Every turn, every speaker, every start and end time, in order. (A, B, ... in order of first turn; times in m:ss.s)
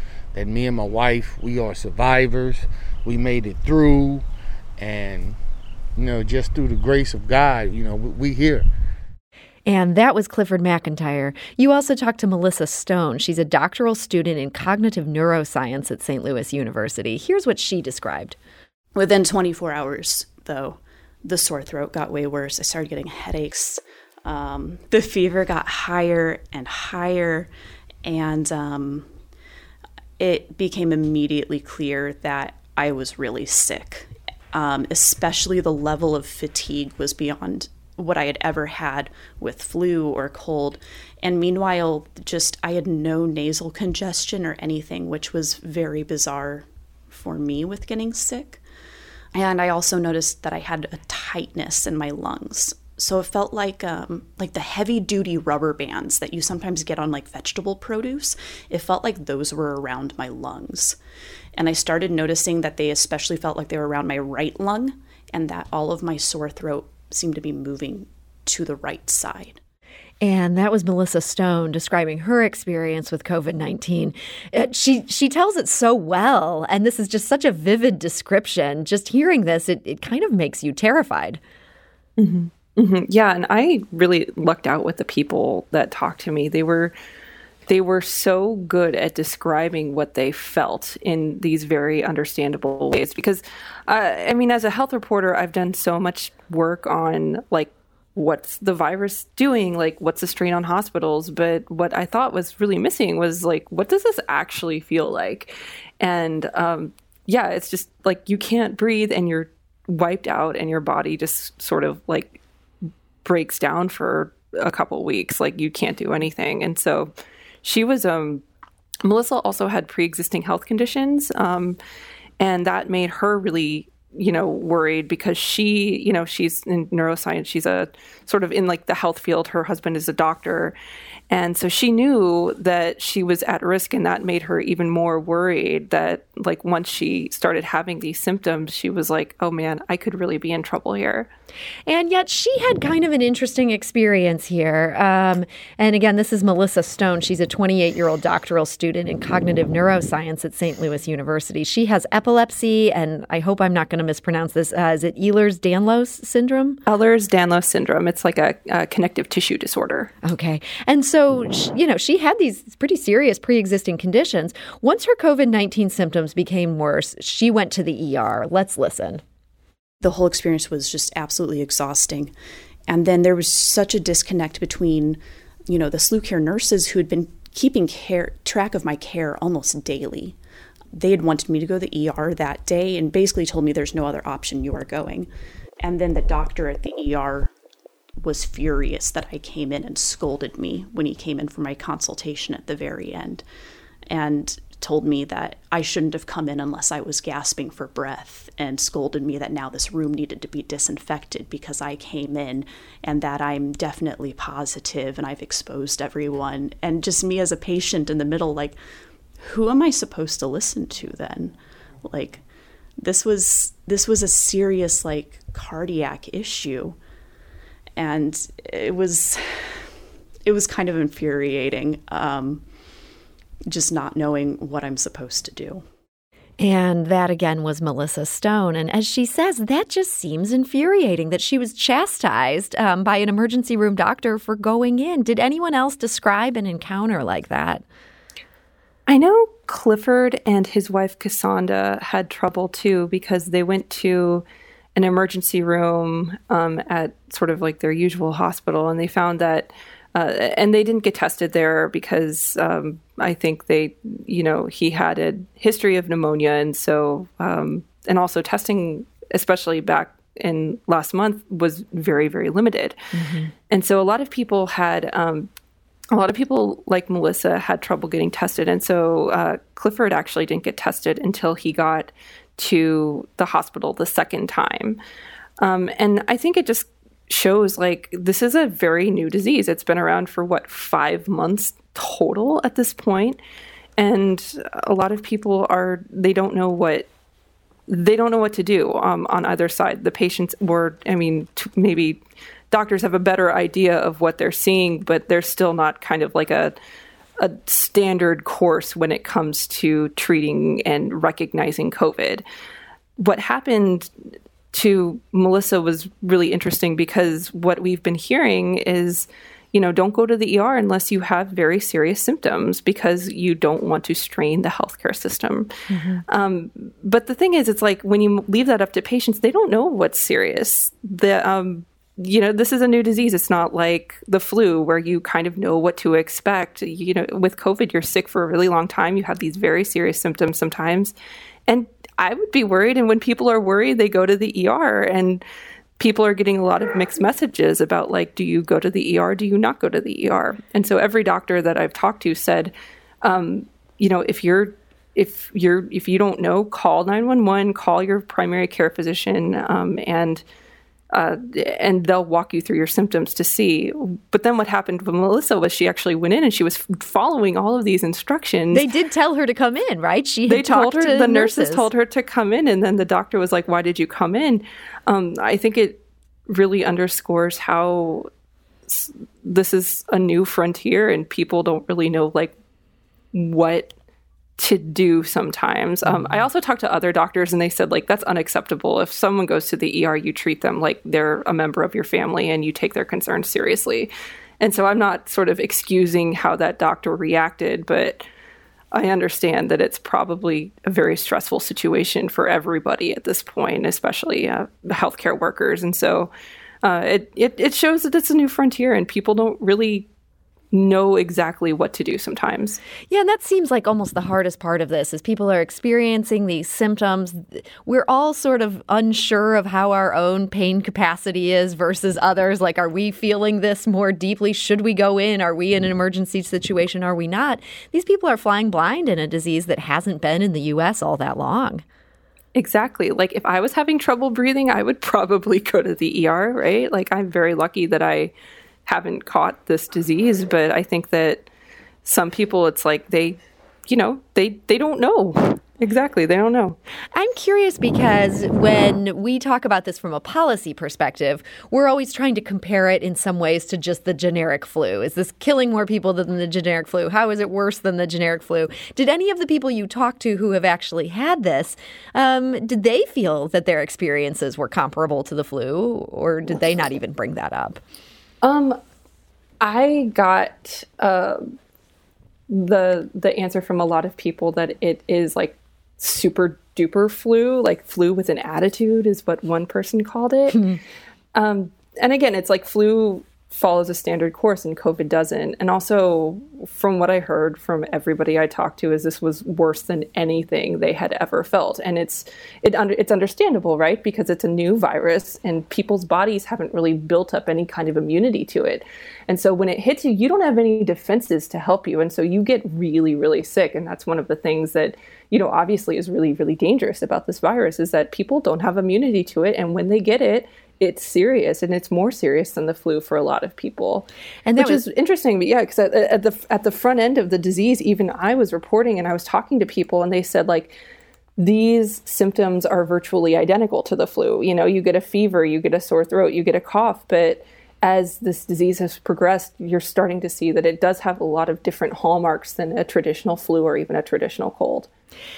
0:00.3-0:04.2 A
0:04.8-0:05.4 A
0:06.0-0:08.7 A
0:09.6-0:18.4 B
0:18.9-0:27.5 C
0:28.0-0:29.1 C
0:30.2-0:48.6 C
0:49.3-1:01.0 C
1:01.5-1:09.6 C
1:10.2-1:21.4 B
1:22.2-1:26.9 D
1:27.7-1:52.4 D
1:53.2-1:57.1 D
1:57.6-1:58.4 D
1:59.0-2:01.8 D
2:02.4-2:10.7 D
2:11.3-2:21.3 D
2:21.9-2:36.8 B
2:36.9-2:40.1 D
2:40.2-2:49.2 B
2:50.0-2:52.3 C
2:52.9-3:00.4 C
3:00.9-3:05.3 C
3:05.8-3:07.5 C
3:08.2-3:13.4 C
3:14.1-3:28.8 C
3:29.4-3:32.4 C
3:33.0-3:37.0 C
3:38.0-3:39.9 C
3:40.4-3:42.6 C
3:43.7-3:45.8 C
3:46.6-3:57.8 B
3:59.1-4:23.0 D
4:23.1-4:23.5 B
4:23.7-4:25.5 D
4:26.1-4:35.0 D
4:35.6-4:43.4 D
4:44.0-4:47.1 D
4:47.9-4:52.2 D
4:52.7-4:56.8 D
4:57.4-5:02.4 D
5:03.2-5:04.1 D
5:04.7-5:15.7 D
5:15.9-5:16.2 B
5:16.3-5:31.1 D
5:31.7-5:35.4 D
5:36.0-5:50.4 D
5:51.1-5:58.9 D
5:58.7-6:01.9 B
6:00.5-6:08.3 D
6:08.9-6:12.6 D
6:13.3-6:13.9 D
6:14.6-6:28.3 D
6:16.0-6:16.4 B
6:28.9-6:36.3 D
6:36.8-6:40.1 D
6:40.7-6:42.8 D
6:43.1-7:01.8 B
7:02.5-7:08.3 D
7:08.8-7:11.5 D
7:12.0-7:16.8 D
7:17.1-7:37.8 B
7:38.4-7:38.8 D
7:39.6-7:41.4 D
7:42.5-7:50.7 D
7:51.3-8:30.7 D
8:24.4-8:24.8 B
8:31.4-8:44.9 D